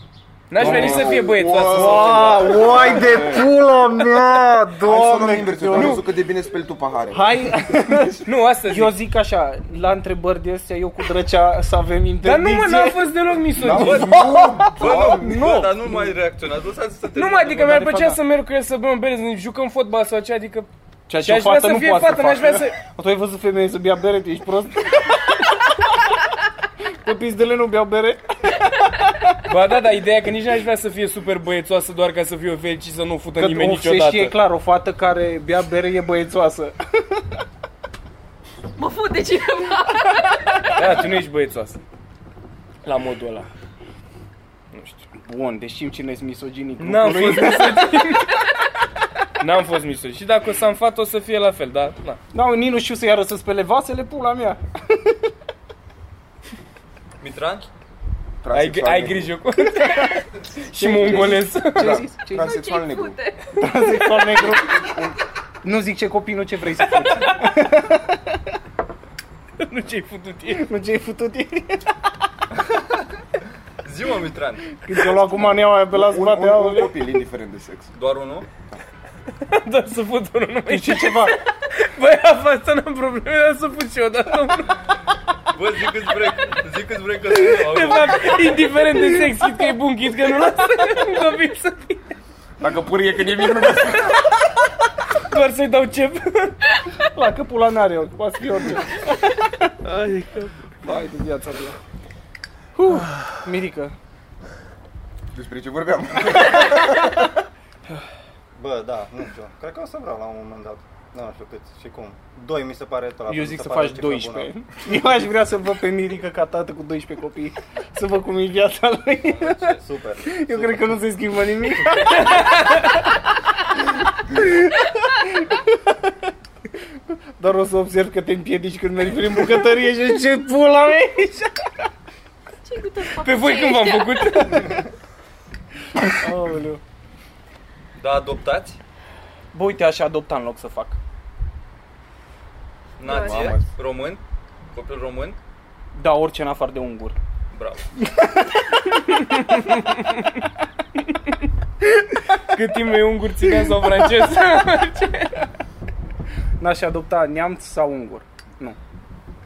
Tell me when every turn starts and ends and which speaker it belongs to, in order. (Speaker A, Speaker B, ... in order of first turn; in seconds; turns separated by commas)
Speaker A: 0.5-2.6, Speaker B: 0.6-3.5, Speaker C: 0.6-6.1, Speaker B: 4.8-8.2, Speaker A: 5.8-6.0, Speaker C: 7.1-13.1, Speaker A: 8.2-9.0, Speaker A: 12.2-14.2, Speaker B: 13.6-15.6, Speaker D: 13.7-17.9, Speaker C: 13.9-16.1, Speaker A: 17.2-20.7, Speaker C: 17.7-18.2, Speaker C: 21.1-25.9, Speaker A: 21.2-22.8, Speaker C: 27.0-29.2, Speaker A: 29.4-34.4, Speaker C: 33.4-37.4, Speaker E: 38.8-40.7, Speaker A: 40.7-41.8, Speaker A: 42.8-43.5, Speaker A: 44.7-45.1, Speaker C: 45.1-48.0, Speaker A: 46.8-48.4, Speaker A: 49.4-52.2, Speaker C: 52.3-55.2, Speaker D: 57.2-57.7, Speaker B: 58.4-59.4, Speaker A: 58.5-62.1, Speaker C: 59.8-60.1, Speaker C: 60.8-62.6, Speaker B: 61.7-63.2, Speaker E: 62.3-64.0, Speaker C: 63.6-64.9, Speaker B: 64.7-65.1, Speaker C: 65.6-68.5, Speaker A: 66.9-67.5, Speaker A: 69.6-70.7, Speaker C: 70.5-72.0, Speaker D: 73.8-74.8, Speaker C: 74.8-77.0, Speaker B: 75.9-77.9, Speaker D: 78.0-78.5, Speaker A: 79.4-84.8, Speaker C: 80.7-81.4, Speaker D: 85.5-88.7, Speaker A: 87.4-92.0, Speaker B: 92.6-94.5, Speaker A: 95.2-96.6, Speaker C: 97.0-99.7, Speaker A: 99.8-100.5, Speaker C: 100.8-101.8, Speaker C: 102.8-103.9, Speaker B: 105.3-107.4, Speaker F: 108.5-114.5, Speaker C: 113.3-122.8, Speaker D: 119.2-119.8, Speaker F: 119.8-121.1, Speaker A: 122.1-122.9, Speaker C: 124.3-126.1, Speaker C: 127.1-131.7, Speaker E: 132.6-134.6, Speaker A: 133.2-134.8, Speaker C: 136.0-136.8, Speaker D: 137.9-138.8, Speaker C: 139.5-141.0, Speaker D: 143.0-144.2, Speaker E: 143.0-143.6, Speaker B: 143.1-143.6, Speaker D: 144.7-145.4, Speaker C: 145.9-147.1, Speaker D: 147.5-147.9, Speaker C: 148.0-149.3, Speaker A: 149.4-150.4, Speaker A: 151.0-151.3, Speaker A: 152.5-155.4, Speaker C: 156.6-158.8